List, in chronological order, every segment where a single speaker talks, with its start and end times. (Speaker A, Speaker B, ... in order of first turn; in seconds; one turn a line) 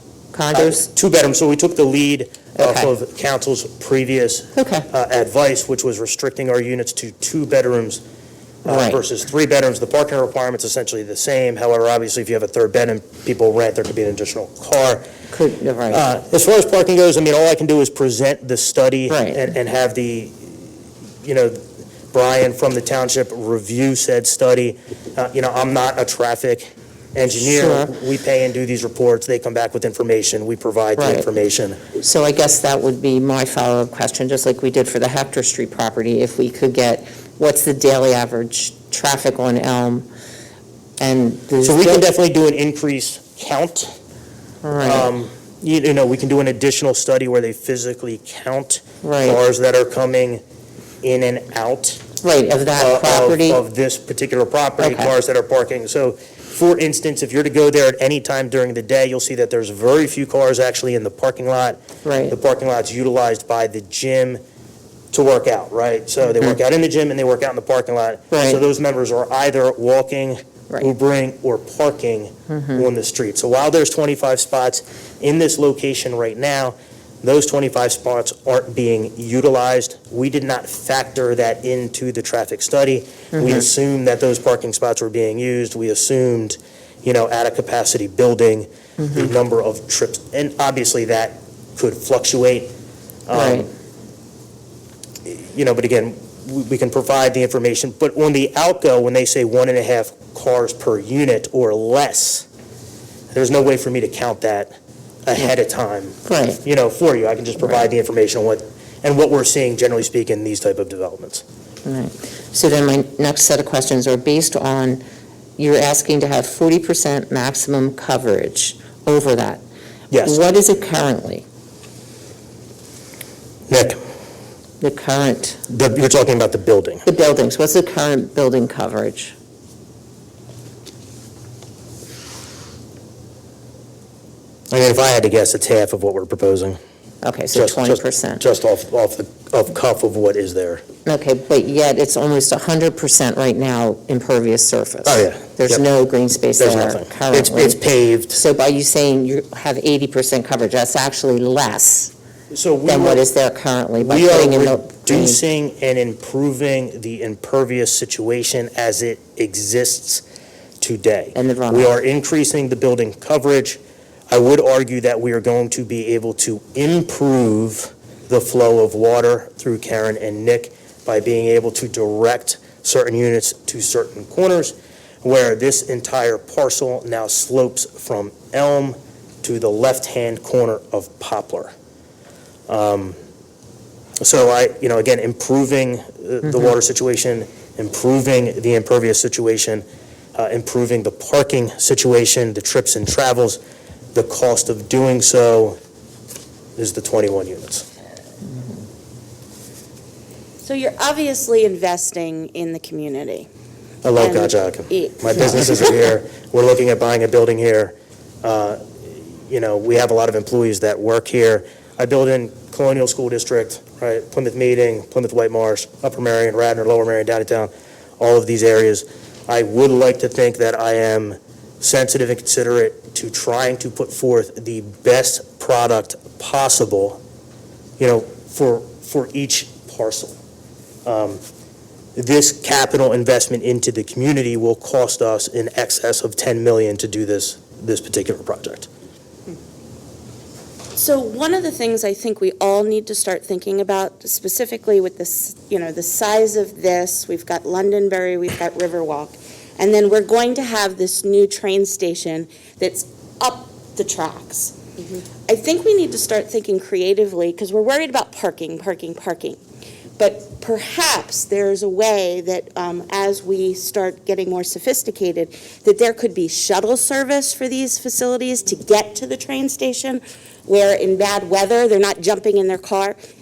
Speaker A: 0.3-0.9
Speaker B: 0.5-8.0
Speaker A: 2.5-2.9
Speaker A: 4.5-4.9
Speaker B: 8.6-15.1
Speaker A: 8.7-9.0
Speaker A: 15.3-16.0
Speaker B: 15.9-20.6
Speaker A: 19.1-19.4
Speaker B: 21.2-31.8
Speaker A: 27.4-27.9
Speaker A: 31.0-31.3
Speaker A: 32.0-40.1
Speaker A: 41.0-42.0
Speaker B: 41.6-43.9
Speaker A: 44.6-45.1
Speaker B: 44.8-50.4
Speaker A: 49.0-49.4
Speaker B: 51.0-52.0
Speaker A: 52.2-53.6
Speaker B: 52.8-64.4
Speaker A: 54.8-55.1
Speaker A: 62.0-62.4
Speaker B: 65.1-92.7
Speaker A: 68.3-68.6
Speaker A: 72.5-72.8
Speaker A: 83.3-83.7
Speaker B: 93.3-93.7
Speaker A: 93.3-93.7
Speaker B: 95.2-102.5
Speaker B: 103.3-111.4
Speaker A: 106.2-106.6
Speaker A: 111.8-115.0
Speaker A: 115.6-119.6
Speaker B: 120.1-120.4
Speaker A: 120.2-121.5
Speaker B: 123.7-124.0
Speaker A: 124.8-125.6
Speaker B: 125.7-127.0
Speaker A: 127.0-129.3
Speaker B: 134.7-136.8
Speaker A: 137.2-138.4
Speaker B: 137.5-140.8
Speaker A: 141.1-147.8
Speaker B: 145.1-145.8
Speaker B: 146.6-148.4
Speaker A: 148.3-152.1
Speaker B: 152.5-153.3
Speaker A: 152.9-155.4
Speaker B: 154.0-160.2
Speaker B: 160.8-181.7
Speaker A: 161.3-161.9
Speaker B: 182.7-183.2
Speaker B: 184.2-189.8
Speaker B: 190.3-193.6
Speaker B: 194.1-195.8
Speaker B: 196.8-197.9
Speaker C: 200.6-203.5
Speaker B: 204.0-208.8
Speaker C: 204.2-205.8
Speaker B: 209.5-227.2
Speaker B: 228.0-230.4
Speaker B: 231.1-231.4
Speaker B: 232.2-238.9
Speaker C: 240.9-259.6
Speaker C: 260.2-273.2